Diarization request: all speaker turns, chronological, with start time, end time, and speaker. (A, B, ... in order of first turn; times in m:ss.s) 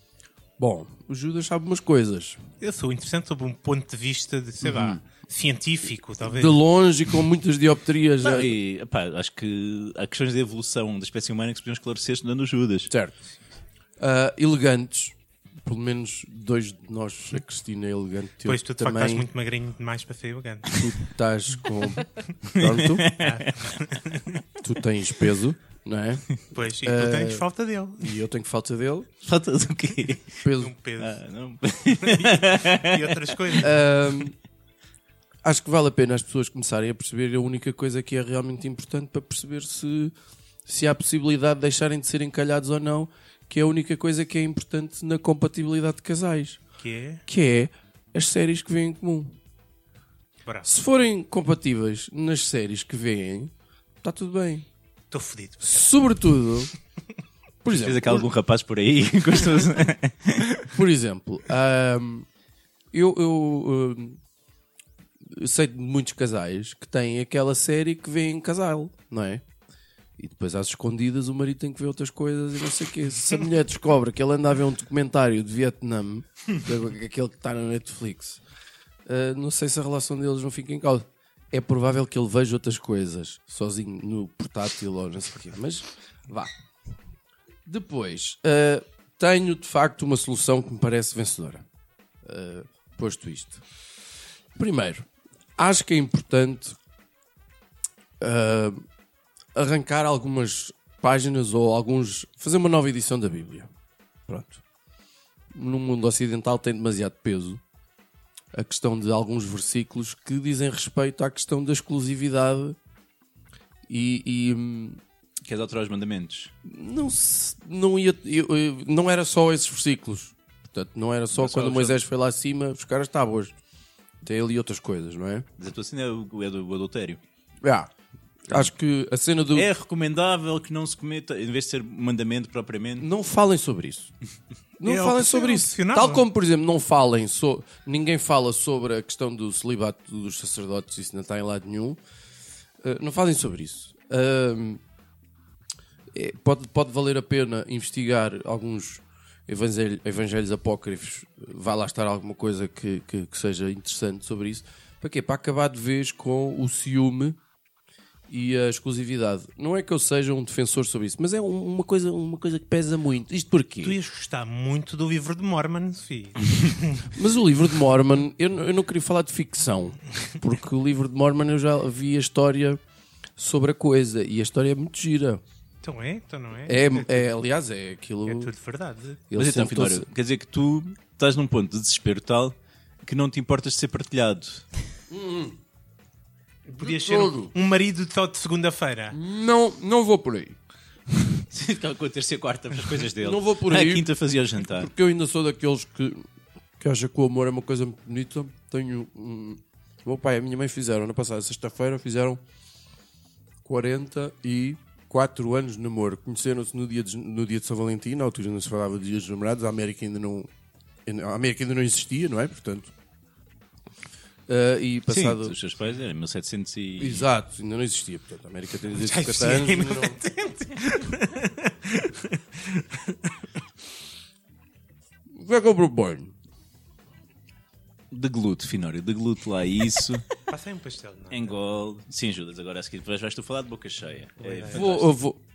0:00.6-0:02.4 A
0:02.6-0:06.6 B
0:04.6-0:05.0 A
0:06.2-0:08.6 A
0:08.2-0:12.9 C
0:12.9-0:13.2 A
0:14.0-0:19.3 A
0:18.4-0:20.8 B
0:20.7-0:23.1 A
0:22.6-0:23.8 C
0:23.2-0:24.4 B
0:24.6-0:27.5 A
0:26.5-0:28.2 B
0:28.0-0:29.1 A
0:29.2-0:30.4 C
0:30.4-0:30.7 A
0:30.6-0:31.2 B
0:31.0-0:33.7 C
0:32.0-0:33.8 B
0:33.6-0:34.4 A
0:35.4-0:40.1 A
0:40.7-0:46.6 A
0:46.8-0:47.2 B
0:47.3-0:49.4 A
0:50.6-0:54.7 A
0:55.1-0:55.9 B
0:55.6-0:56.7 A
0:57.6-0:58.3 A
0:57.7-1:00.7 C
1:00.7-1:02.3 A
1:02.9-1:04.2 A
1:05.2-1:09.4 A
1:10.2-1:18.4 A
1:19.1-1:26.5 A
1:27.7-1:31.6 A
1:32.2-1:33.6 A
1:34.6-1:35.1 A
1:35.6-1:36.8 A
1:38.2-1:38.8 A
1:39.5-1:43.7 A
1:44.3-1:44.6 A
1:45.5-1:47.6 A
1:48.5-1:52.8 A
1:53.9-1:55.0 A
1:55.4-1:56.5 C
1:56.6-2:03.5 A
2:01.4-2:02.0 C
2:04.2-2:05.5 A
2:05.6-2:07.2 C
2:07.6-2:07.9 A
2:08.5-2:09.7 A
2:09.5-2:13.1 C
2:13.0-2:14.1 A
2:14.8-2:22.0 A
2:14.8-2:16.2 B
2:22.8-2:24.8 A
2:26.1-2:37.4 A
2:38.3-2:44.0 A
2:43.8-2:47.1 B
2:47.1-2:52.8 A
2:53.4-2:55.4 A
2:55.8-2:57.2 B
2:56.7-2:58.5 A
2:58.3-2:59.2 B
2:59.3-3:00.1 A
2:59.3-3:04.7 C
3:05.1-3:05.6 A
3:06.7-3:09.2 B
3:06.8-3:07.5 A
3:09.1-3:10.6 A
3:11.5-3:14.9 C
3:13.2-3:14.1 A
3:14.6-3:16.2 A
3:16.8-3:22.4 A
3:23.6-3:30.5 A
3:31.0-3:32.9 A
3:34.5-3:35.6 A
3:35.1-3:37.3 C
3:37.0-3:40.2 A
3:39.0-3:43.3 B
3:45.3-3:46.3 A
3:48.1-3:50.4 C
3:50.5-3:51.6 B
3:51.3-3:55.1 C
3:54.4-3:54.9 B
3:54.7-3:55.4 A